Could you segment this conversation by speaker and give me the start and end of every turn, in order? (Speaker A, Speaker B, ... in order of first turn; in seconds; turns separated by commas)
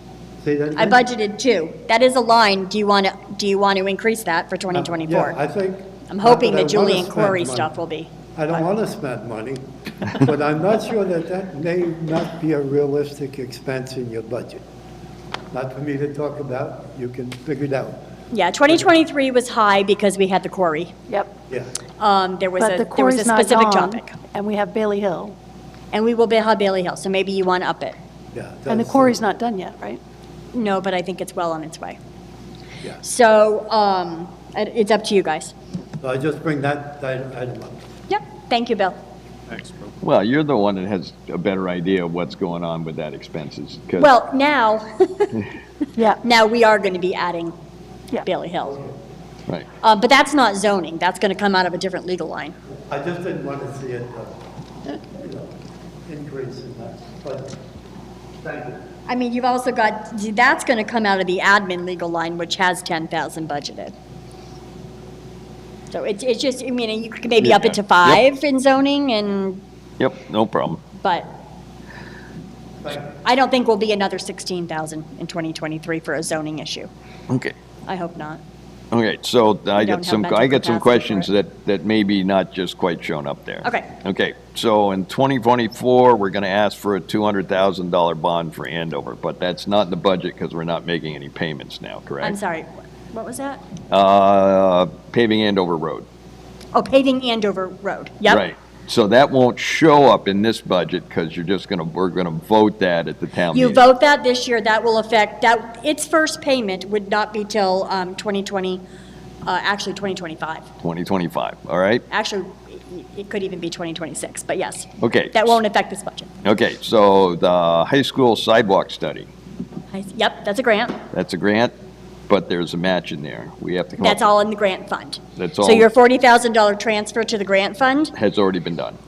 Speaker A: 0.4-1.0, Speaker B: 0.8-5.4, Speaker A: 4.7-7.7, Speaker B: 6.1-8.1, Speaker A: 8.3-14.6, Speaker A: 15.5-18.0, Speaker B: 18.3-20.9, Speaker B: 22.0-24.1, Speaker C: 22.6-25.4, Speaker B: 25.9-28.0, Speaker A: 28.3-29.2, Speaker C: 28.7-30.0, Speaker B: 30.5-32.0, Speaker B: 33.0-35.5, Speaker A: 36.0-37.8, Speaker B: 38.1-39.0, Speaker D: 40.0-44.1, Speaker B: 44.0-45.4, Speaker B: 46.2-47.5, Speaker B: 48.2-48.8, Speaker A: 48.6-48.9, Speaker B: 49.8-52.5, Speaker A: 52.9-54.3, Speaker A: 54.9-55.5, Speaker A: 56.1-57.5, Speaker A: 58.4-58.8, Speaker B: 59.1-63.9, Speaker B: 65.9-69.6, Speaker D: 67.4-68.2, Speaker D: 70.0-70.8, Speaker B: 71.0-71.3, Speaker B: 73.2-76.9, Speaker D: 77.3-77.5, Speaker B: 77.9-78.4, Speaker D: 78.9-92.4, Speaker B: 79.8-81.3, Speaker B: 92.2-93.6, Speaker D: 93.9-96.1, Speaker B: 96.7-98.4, Speaker D: 98.2-103.8, Speaker B: 103.5-108.8, Speaker B: 109.5-110.7, Speaker D: 110.8-112.0, Speaker B: 112.1-116.3, Speaker D: 115.0-115.6, Speaker D: 116.4-119.3, Speaker B: 119.9-121.0, Speaker D: 121.1-121.7, Speaker D: 122.3-124.3, Speaker B: 124.0-128.1, Speaker D: 125.4-125.9, Speaker D: 128.2-129.0